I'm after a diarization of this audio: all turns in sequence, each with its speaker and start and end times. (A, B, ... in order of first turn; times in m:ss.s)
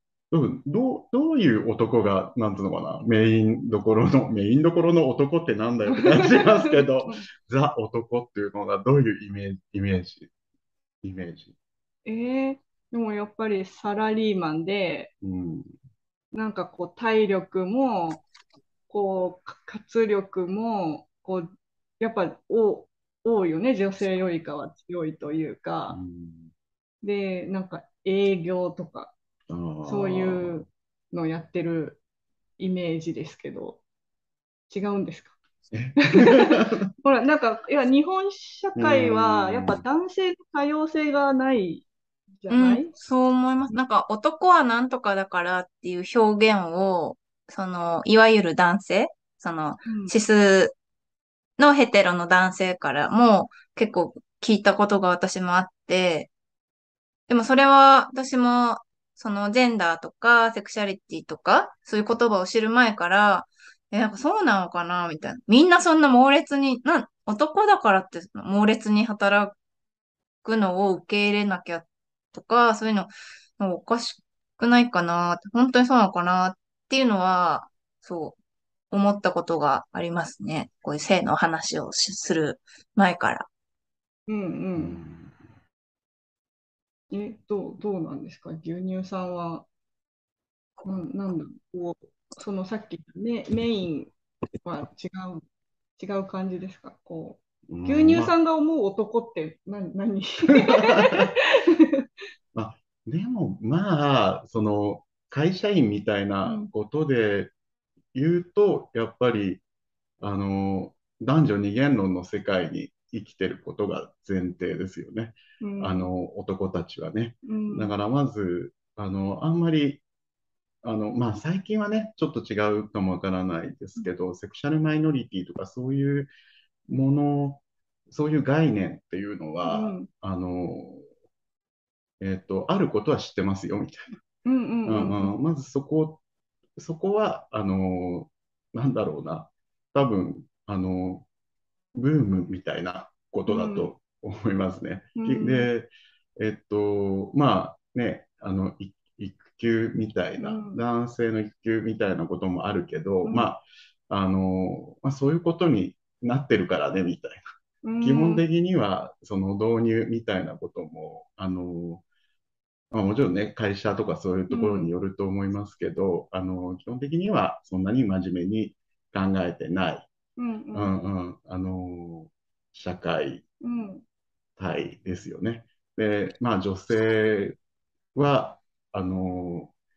0:00.3-0:10.3 A
0:05.9-0:07.2 B
0:11.0-0:11.5 A
0:12.0-0:15.1 B
0:15.2-0:15.7 A
0:16.3-0:18.2 B
0:18.9-0:21.5 B
0:22.0-0:26.0 B
0:25.9-0:26.5 A
0:27.0-0:29.1 B
0:29.5-0:30.7 A
0:29.8-0:32.0 B
0:32.6-0:33.8 B
0:34.7-0:35.3 B
0:35.7-0:36.9 A
0:36.2-0:41.8 B
0:38.8-0:39.8 A
0:42.4-0:42.9 B
0:42.5-0:50.7 C
0:49.9-0:50.1 B
0:51.6-0:56.3 C
0:57.3-1:09.6 C
1:10.4-1:18.4 C
1:18.9-1:23.5 C
1:24.3-1:25.0 B
1:24.8-1:25.3 A
1:27.1-1:29.7 B
1:30.8-1:34.1 B
1:34.6-1:35.4 B
1:36.0-1:42.0 B
1:37.7-1:38.3 A
1:40.8-1:41.3 A
1:42.5-1:47.5 A
1:46.4-1:46.7 B
1:48.1-1:49.6 A
1:50.2-2:00.0 A
1:55.6-1:56.1 B
1:57.4-1:57.9 B
2:00.8-2:06.3 A
2:06.9-2:11.0 A
2:09.6-2:10.1 B
2:12.2-2:14.2 A
2:14.4-2:15.3 B
2:14.8-2:16.2 A
2:16.8-2:21.2 A
2:21.9-2:37.4 A
2:23.5-2:23.9 B
2:25.2-2:25.7 B
2:30.4-2:30.8 B
2:37.8-2:38.4 B
2:38.0-2:42.0 A
2:42.9-2:50.1 A
2:44.5-2:44.9 B
2:50.4-2:50.9 B
2:50.7-2:53.4 A
2:53.6-2:54.0 B
2:54.6-2:57.6 A
2:58.1-2:59.7 A